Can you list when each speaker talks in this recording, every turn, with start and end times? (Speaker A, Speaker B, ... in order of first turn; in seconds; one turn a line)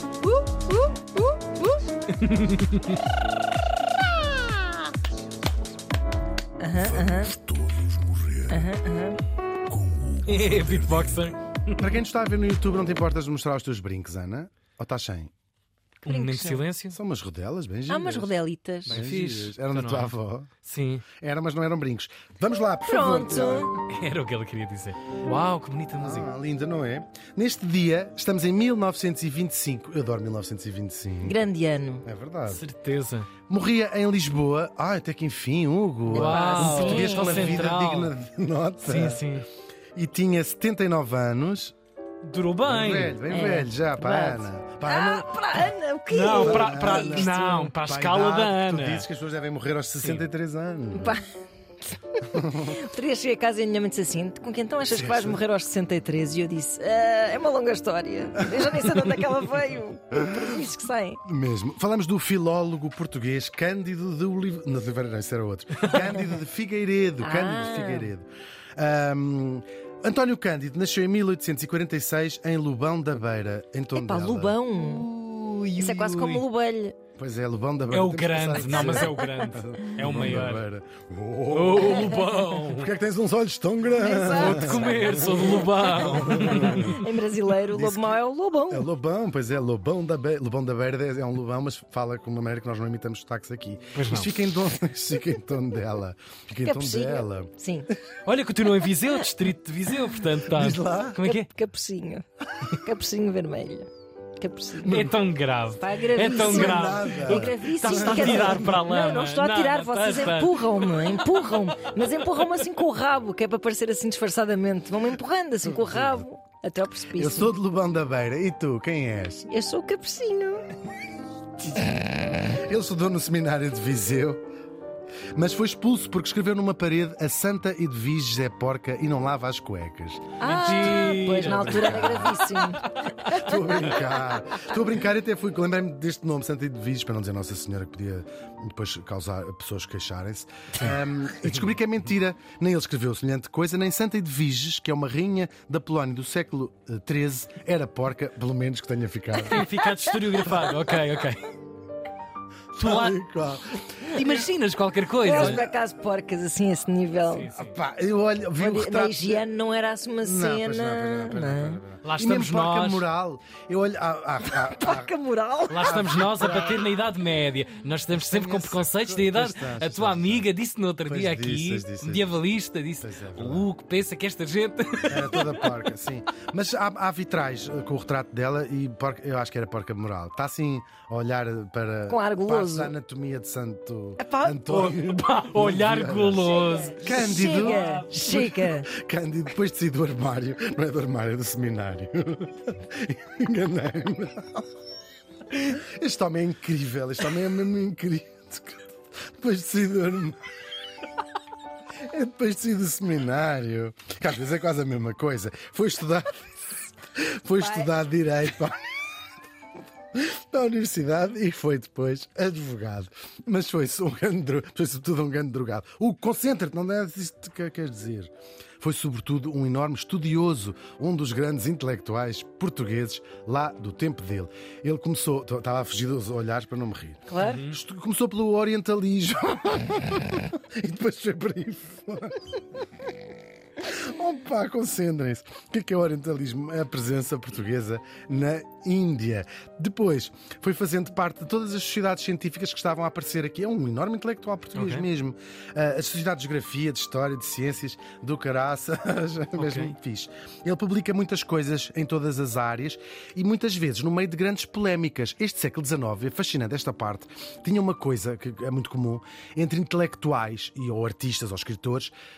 Speaker A: 0.2-1.8
Speaker B: 2.2-3.0
Speaker A: 6.6-7.3
Speaker C: 7.0-8.6
Speaker A: 8.5-9.2
Speaker C: 9.7-11.2
Speaker B: 10.2-11.9
Speaker D: 11.8-15.3
Speaker B: 16.0-17.0
Speaker A: 16.1-16.6
Speaker D: 16.9-18.3
Speaker A: 17.9-19.1
Speaker D: 18.9-20.5
Speaker B: 18.9-21.1
Speaker D: 21.2-23.7
Speaker A: 22.8-23.7
Speaker B: 23.9-26.3
Speaker D: 26.0-31.4
Speaker A: 31.2-32.0
Speaker D: 32.0-32.6
Speaker B: 32.5-33.3
Speaker D: 33.5-39.2
Speaker B: 36.1-38.1
Speaker A: 36.1-37.6
Speaker B: 38.8-39.5
Speaker D: 39.9-41.7
Speaker B: 42.2-43.1
Speaker D: 42.6-45.7
Speaker A: 43.3-47.7
Speaker B: 46.1-49.1
Speaker D: 46.3-51.2
Speaker A: 50.9-51.2
Speaker A: 51.9-61.2
Speaker D: 52.3-52.8
Speaker D: 54.9-55.4
Speaker D: 61.2-74.6
Speaker A: 67.2-68.1
Speaker A: 73.9-75.0
Speaker B: 74.8-76.4
Speaker A: 75.8-77.0
Speaker D: 77.2-87.0
Speaker B: 77.9-80.6
Speaker B: 81.5-82.9
Speaker A: 83.9-88.9
Speaker B: 84.2-87.0
Speaker D: 87.7-97.5
Speaker B: 93.9-94.3
Speaker A: 96.6-97.9
Speaker B: 98.2-101.5
Speaker D: 100.5-101.2
Speaker A: 101.2-105.1
Speaker D: 104.8-105.2
Speaker B: 104.9-111.3
Speaker A: 105.8-117.5
Speaker D: 106.2-108.8
Speaker D: 115.6-116.2
Speaker D: 117.1-119.5
Speaker A: 119.5-120.7
Speaker D: 121.6-124.4
Speaker D: 125.3-132.4
Speaker A: 130.4-133.8
Speaker B: 130.4-133.4
Speaker D: 133.2-149.6
Speaker B: 149.3-151.5
Speaker D: 152.7-154.3
Speaker B: 152.8-153.2
Speaker B: 154.0-155.6
Speaker A: 155.2-157.5
Speaker D: 155.3-155.7
Speaker B: 157.3-157.8
Speaker D: 157.5-159.4
Speaker A: 158.6-161.8
Speaker D: 160.2-165.1
Speaker B: 162.0-163.0
Speaker A: 164.5-166.0
Speaker B: 165.7-175.7
Speaker D: 165.8-166.8
Speaker D: 168.1-170.5
Speaker D: 171.0-172.3
Speaker D: 173.0-173.7
Speaker D: 175.1-194.7
Speaker A: 182.1-182.9
Speaker A: 184.2-184.6
Speaker B: 184.7-188.2
Speaker A: 186.6-188.9
Speaker D: 195.5-198.8
Speaker D: 199.4-200.4
Speaker D: 202.0-206.4
Speaker D: 207.1-208.8
Speaker A: 207.6-207.9
Speaker D: 210.1-232.6
Speaker A: 227.3-227.6
Speaker B: 227.4-227.8
Speaker D: 233.8-262.1
Speaker B: 244.7-245.1
Speaker B: 249.6-249.9